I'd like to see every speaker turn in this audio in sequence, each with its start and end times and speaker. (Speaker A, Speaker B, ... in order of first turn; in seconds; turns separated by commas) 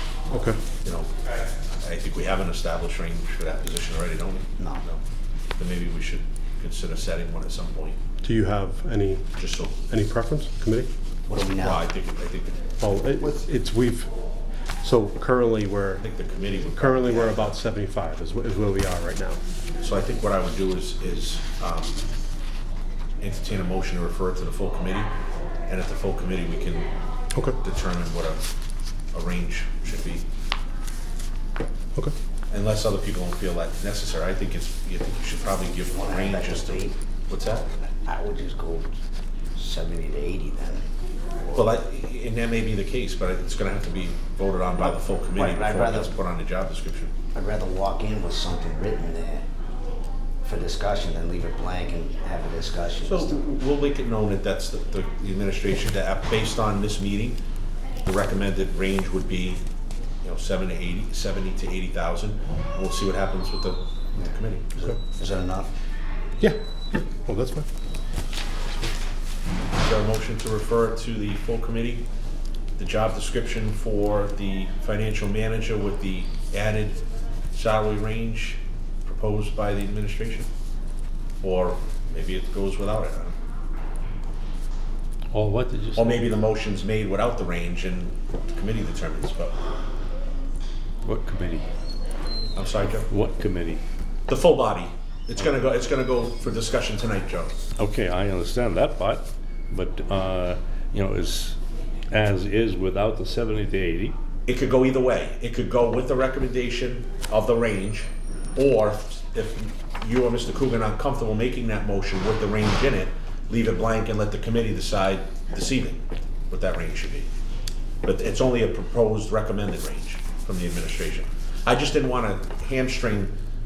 Speaker A: 0.3-0.6, Speaker B: 0.8-5.0, Speaker B: 5.6-8.0, Speaker A: 8.2-9.3, Speaker B: 9.4-9.8, Speaker A: 9.9-10.9, Speaker C: 11.3-11.9, Speaker B: 11.6-12.6, Speaker A: 12.8-14.1, Speaker A: 14.8-16.1, Speaker B: 16.0-17.5, Speaker A: 16.7-19.4, Speaker B: 19.8-22.0, Speaker B: 23.2-25.1, Speaker B: 25.7-26.9, Speaker A: 27.3-27.6, Speaker B: 27.6-28.4, Speaker B: 29.1-30.2, Speaker B: 32.5-37.7, Speaker C: 35.9-37.0, Speaker C: 38.0-39.0, Speaker C: 39.5-40.8, Speaker B: 41.5-47.1, Speaker C: 45.3-46.2, Speaker C: 47.3-49.4, Speaker C: 50.4-53.4, Speaker B: 53.0-57.4, Speaker B: 58.0-59.6, Speaker B: 60.2-64.7, Speaker C: 64.2-65.7, Speaker A: 66.4-67.7, Speaker B: 69.7-72.0, Speaker B: 72.8-77.0, Speaker B: 77.5-80.5, Speaker B: 81.4-83.3, Speaker D: 85.3-86.3, Speaker B: 86.0-89.5, Speaker D: 91.0-91.7, Speaker B: 92.5-93.1, Speaker D: 93.1-93.8, Speaker B: 94.3-97.5, Speaker D: 97.8-101.6, Speaker D: 102.1-104.2, Speaker B: 104.5-117.3, Speaker B: 118.0-123.3